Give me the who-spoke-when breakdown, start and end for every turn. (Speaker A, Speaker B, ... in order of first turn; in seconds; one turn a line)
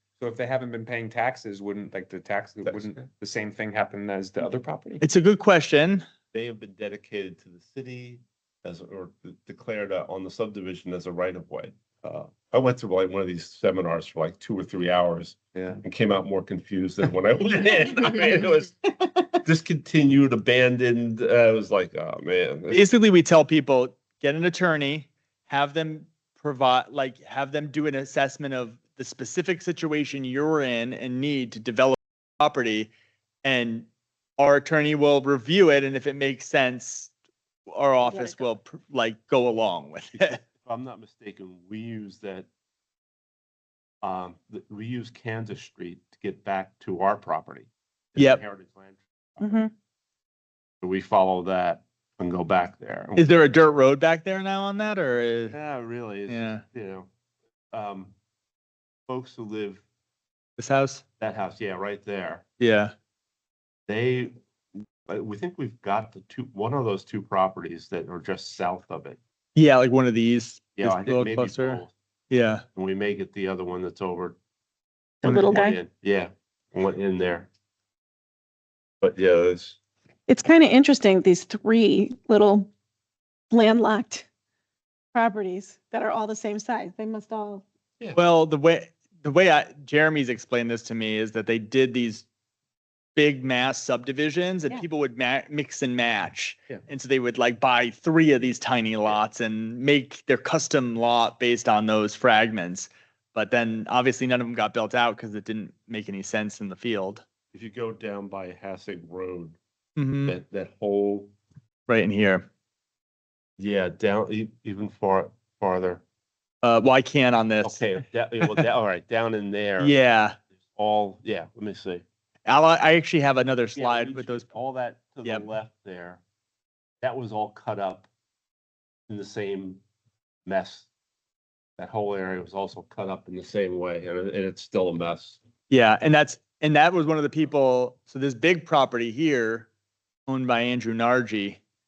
Speaker A: 0.2-5.0
Speaker B: 2.6-3.0
Speaker C: 5.0-6.0
Speaker B: 6.3-22.8
Speaker C: 22.7-32.9
Speaker C: 33.4-37.1
Speaker C: 37.7-40.4
Speaker D: 38.0-38.5
Speaker B: 40.1-42.5
Speaker B: 44.0-49.6
Speaker C: 48.2-48.4
Speaker D: 49.4-49.7
Speaker B: 50.8-53.3
Speaker C: 53.1-55.5
Speaker B: 55.5-57.1
Speaker C: 56.3-56.6
Speaker B: 57.7-58.1
Speaker B: 59.1-59.8
Speaker C: 60.6-61.0
Speaker B: 61.2-62.4
Speaker C: 62.6-62.9
Speaker B: 63.9-69.2
Speaker C: 69.5-72.6
Speaker B: 70.8-71.9
Speaker B: 72.7-74.4
Speaker D: 75.2-75.8
Speaker B: 75.2-77.5
Speaker B: 79.0-79.8
Speaker D: 80.3-82.7
Speaker D: 83.5-84.3
Speaker D: 85.1-87.6
Speaker C: 88.1-92.2
Speaker C: 93.2-107.2
Speaker B: 107.5-109.6
Speaker C: 110.0-110.4
Speaker B: 110.2-111.3
Speaker C: 111.9-112.5
Speaker B: 113.6-116.0
Speaker C: 116.6-117.9
Speaker B: 117.6-119.9
Speaker C: 119.8-120.3
Speaker B: 120.7-122.0
Speaker C: 122.5-124.5
Speaker B: 123.7-126.2
Speaker B: 127.0-128.1
Speaker B: 129.1-129.8
Speaker B: 130.4-130.9
Speaker B: 131.8-135.4
Speaker C: 135.7-139.7
Speaker C: 140.3-141.6